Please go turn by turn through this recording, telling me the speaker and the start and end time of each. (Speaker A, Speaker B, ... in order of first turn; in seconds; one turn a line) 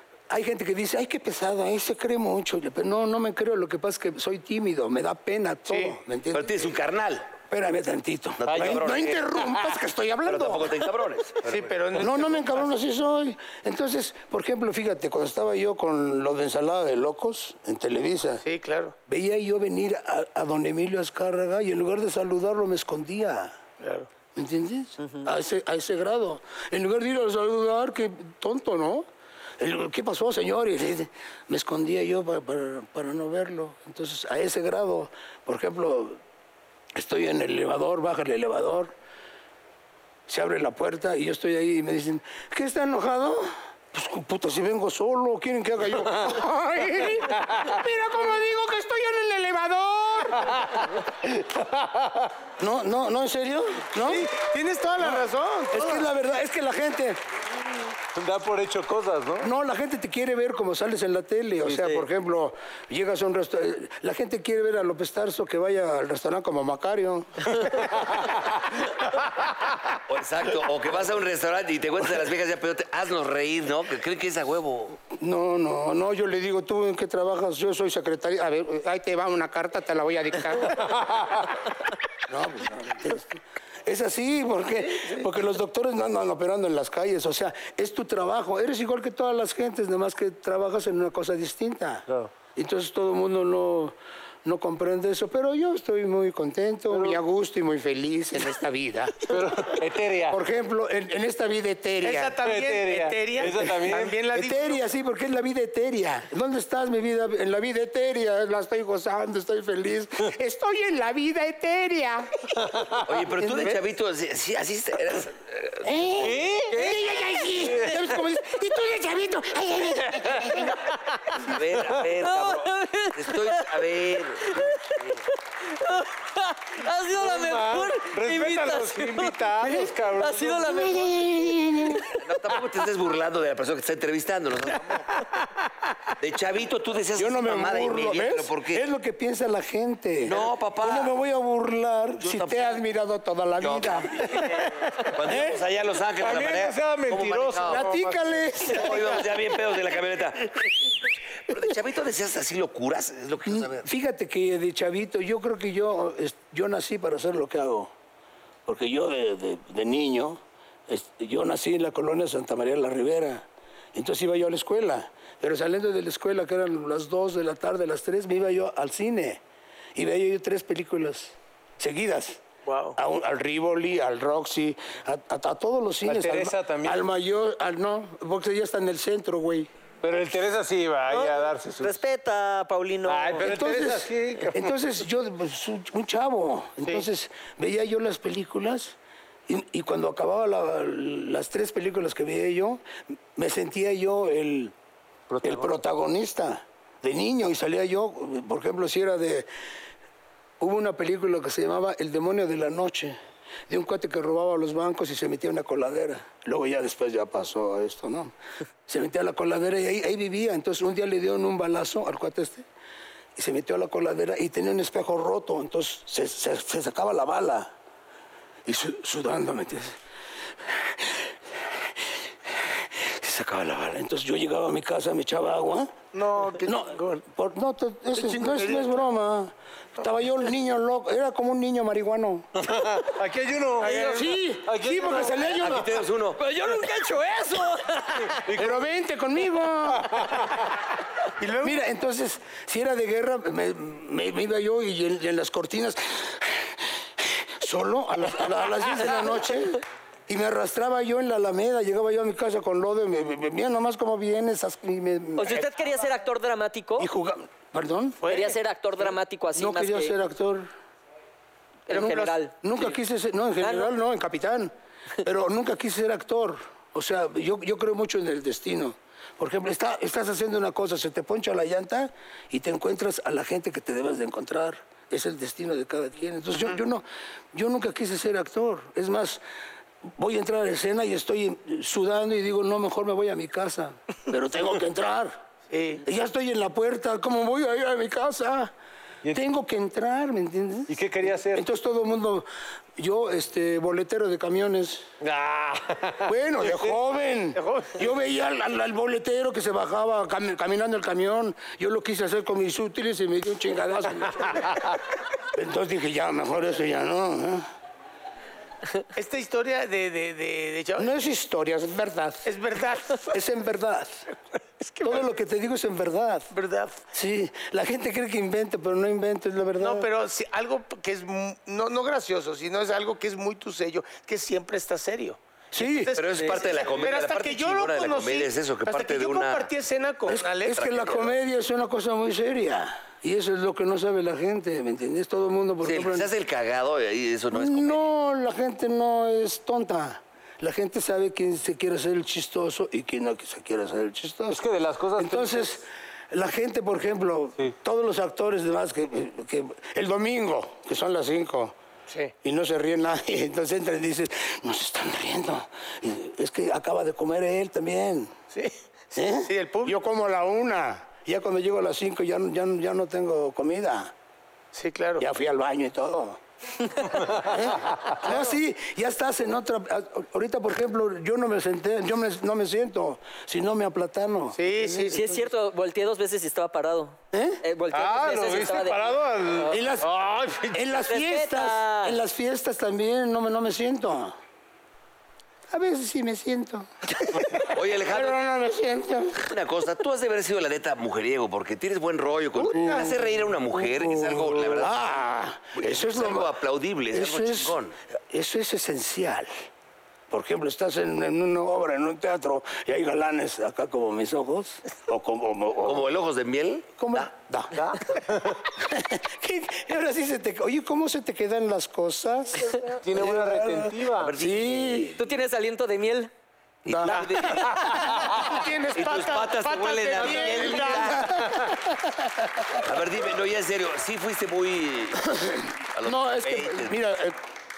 Speaker A: 0.3-6.7
Speaker B: 5.7-6.0
Speaker C: 6.3-7.3
Speaker A: 7.4-10.9
Speaker C: 8.4-9.2
Speaker D: 8.4-8.9
Speaker C: 10.2-11.8
Speaker B: 11.4-12.7
Speaker A: 12.0-18.4
Speaker B: 18.4-18.9
Speaker A: 19.1-23.6
Speaker B: 23.8-24.1
Speaker A: 24.3-29.1
Speaker A: 29.6-36.2
Speaker A: 36.9-38.9
Speaker A: 40.3-50.7
Speaker D: 47.4-47.7
Speaker D: 50.4-52.3
Speaker A: 52.6-54.3
Speaker B: 54.0-56.1
Speaker A: 55.0-57.2
Speaker D: 58.1-59.5
Speaker A: 59.4-67.8
Speaker D: 61.6-62.0
Speaker D: 67.5-68.7
Speaker C: 70.1-75.0
Speaker A: 75.1-80.9
Speaker D: 80.9-81.2
Speaker A: 82.3-99.7
Speaker B: 85.0-85.2
Speaker D: 96.9-97.2
Speaker D: 99.3-100.4
Speaker A: 100.3-102.3
Speaker B: 102.0-104.8
Speaker D: 102.4-104.2
Speaker A: 104.3-112.5
Speaker D: 112.6-113.0
Speaker C: 113.0-115.9
Speaker A: 113.4-113.8
Speaker A: 115.8-120.9
Speaker D: 116.2-118.2
Speaker C: 121.4-125.2
Speaker E: 122.2-123.8
Speaker E: 124.4-125.0
Speaker E: 125.7-132.2
Speaker D: 127.1-131.1
Speaker A: 130.7-132.0
Speaker C: 132.1-135.1
Speaker C: 136.2-138.8
Speaker A: 137.1-144.3
Speaker C: 140.2-141.1
Speaker C: 142.2-142.8
Speaker C: 143.6-148.0
Speaker D: 144.3-145.3
Speaker A: 145.2-145.6
Speaker D: 146.2-148.2
Speaker A: 147.6-149.3
Speaker C: 148.6-150.7
Speaker C: 151.5-153.8
Speaker A: 153.4-157.9
Speaker A: 158.7-169.4
Speaker A: 169.9-172.4
Speaker B: 172.6-173.0
Speaker A: 172.9-179.7
Speaker D: 176.0-177.1
Speaker D: 180.0-182.0
Speaker E: 181.1-183.5
Speaker D: 183.1-184.7
Speaker A: 183.4-188.9
Speaker A: 189.5-192.8
Speaker A: 193.3-194.7
Speaker D: 195.3-195.6
Speaker A: 195.4-199.5
Speaker A: 200.6-203.2
Speaker A: 203.7-208.3
Speaker A: 208.9-212.7
Speaker A: 213.3-217.7
Speaker A: 218.7-220.0
Speaker A: 220.6-225.9
Speaker B: 226.1-227.2
Speaker A: 226.6-232.6
Speaker B: 228.2-228.9
Speaker D: 232.6-235.8
Speaker B: 233.8-234.3
Speaker A: 234.0-235.9
Speaker C: 235.5-236.4
Speaker E: 236.4-238.3
Speaker D: 238.2-238.9
Speaker A: 238.4-240.2
Speaker D: 239.9-240.6
Speaker B: 241.4-241.8
Speaker A: 241.6-255.7
Speaker E: 255.4-257.1
Speaker A: 257.0-258.2
Speaker B: 258.2-258.6
Speaker E: 258.2-260.1
Speaker A: 259.5-260.7
Speaker E: 261.9-262.5
Speaker B: 261.9-262.9
Speaker A: 262.0-279.4
Speaker E: 263.6-263.9
Speaker A: 280.1-285.4
Speaker B: 285.7-286.0
Speaker A: 286.0-288.7
Speaker A: 289.3-295.1
Speaker D: 290.9-291.6
Speaker D: 295.2-296.9
Speaker A: 296.2-307.7
Speaker B: 297.6-298.0
Speaker B: 309.1-311.1
Speaker A: 311.0-312.5
Speaker B: 312.4-313.4
Speaker A: 313.2-314.3
Speaker B: 314.8-315.3
Speaker A: 315.0-316.5
Speaker B: 316.5-317.0
Speaker A: 317.1-320.1
Speaker B: 319.8-331.1
Speaker A: 325.7-326.1
Speaker C: 326.1-329.7
Speaker A: 330.3-336.3
Speaker C: 330.8-331.2
Speaker C: 335.8-338.0
Speaker A: 337.5-344.6
Speaker D: 344.5-345.7
Speaker A: 345.2-351.7
Speaker A: 352.4-358.3
Speaker B: 358.5-358.8
Speaker A: 359.1-364.1
Speaker B: 359.3-359.9
Speaker B: 364.7-365.2
Speaker A: 365.2-366.4
Speaker A: 367.4-375.4
Speaker B: 374.6-375.4
Speaker E: 375.1-379.7
Speaker A: 377.3-377.6
Speaker D: 377.9-380.8
Speaker A: 379.7-380.1
Speaker A: 380.7-384.3
Speaker E: 381.1-382.2
Speaker A: 385.7-389.6
Speaker C: 387.7-388.4
Speaker C: 389.4-395.0
Speaker A: 392.6-396.5
Speaker C: 395.8-397.9
Speaker A: 397.1-397.8
Speaker A: 398.3-399.5
Speaker A: 400.3-406.1
Speaker C: 405.8-407.3
Speaker A: 407.0-408.0
Speaker A: 408.8-415.1
Speaker D: 413.0-414.3
Speaker C: 414.2-415.2
Speaker E: 415.2-416.3
Speaker C: 416.8-418.0
Speaker A: 416.9-417.8
Speaker D: 417.8-418.4
Speaker A: 418.3-419.2
Speaker B: 418.4-421.3
Speaker C: 418.9-421.4
Speaker A: 420.2-422.3
Speaker C: 422.8-426.9
Speaker A: 425.4-427.4